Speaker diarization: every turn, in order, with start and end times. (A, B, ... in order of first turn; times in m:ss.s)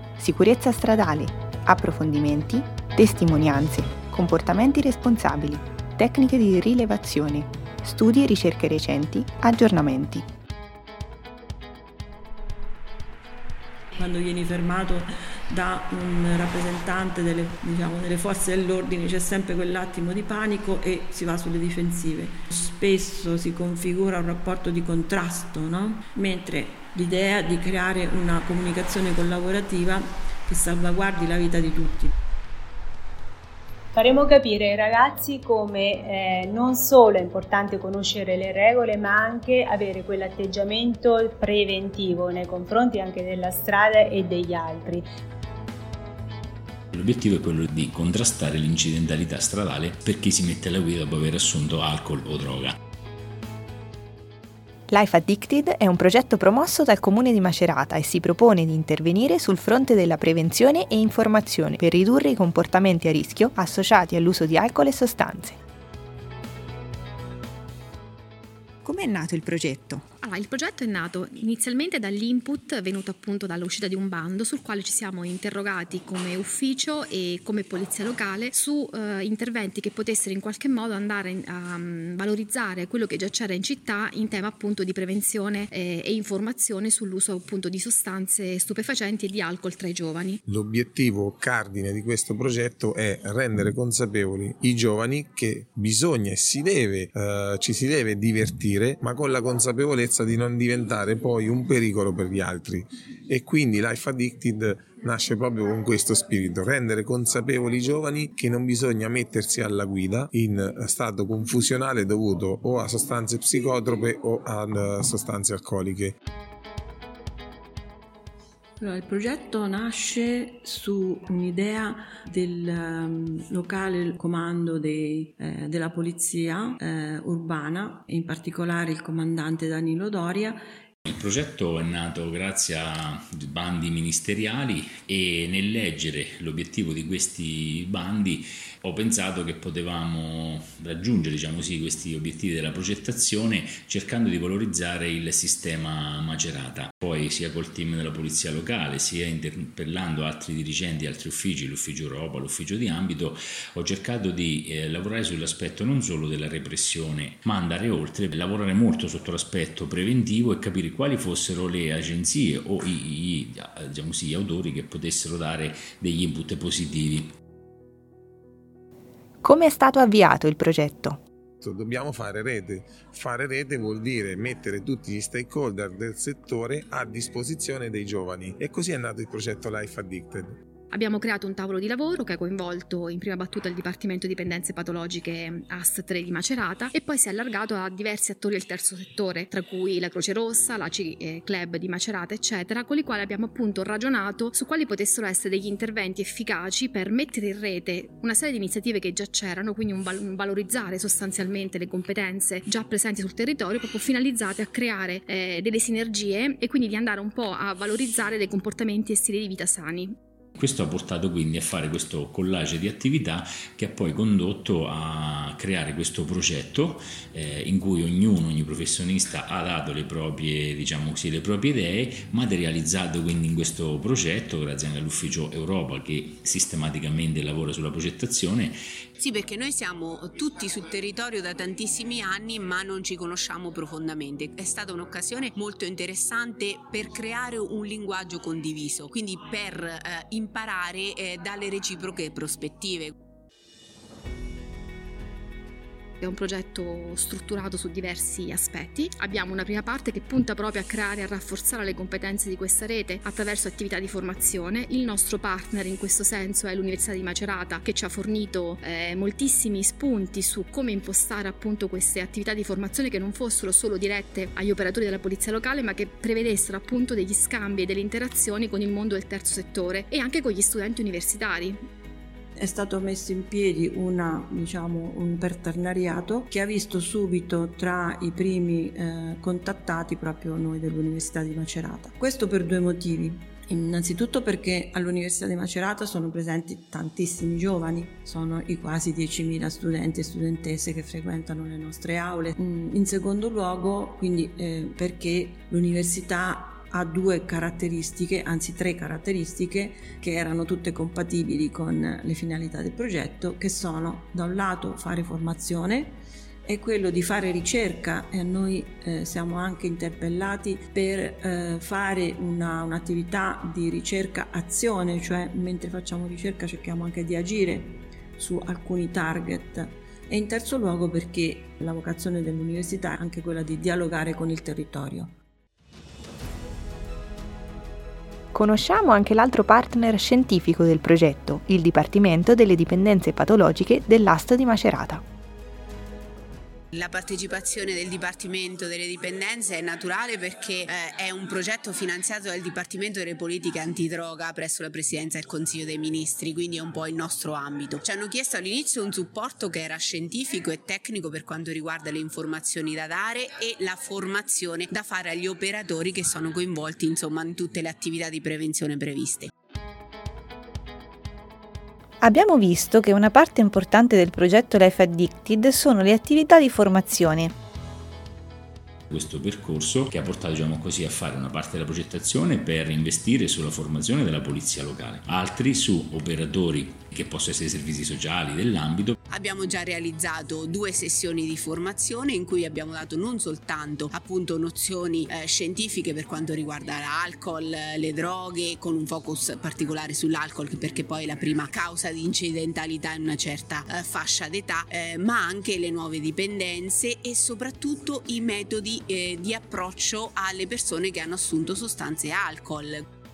0:00.2-0:10.2 A
0:14.0-0:32.1 B
0:33.9-0:45.0 C
0:46.9-0:52.8 D
0:54.9-1:05.6 A
1:08.8-1:10.0 A
1:10.2-1:30.4 E
1:30.5-1:56.1 F
1:58.8-2:10.6 B
2:11.1-2:47.3 D
2:49.4-2:51.2 A
2:51.6-3:00.6 F
3:00.9-3:30.1 E
3:30.6-3:48.8 D
3:49.2-4:03.1 G
4:06.2-4:31.8 E
4:32.6-5:25.3 B
5:28.5-5:35.2 A
5:36.9-5:59.5 G
6:09.1-6:19.2 D
6:19.3-6:43.0 G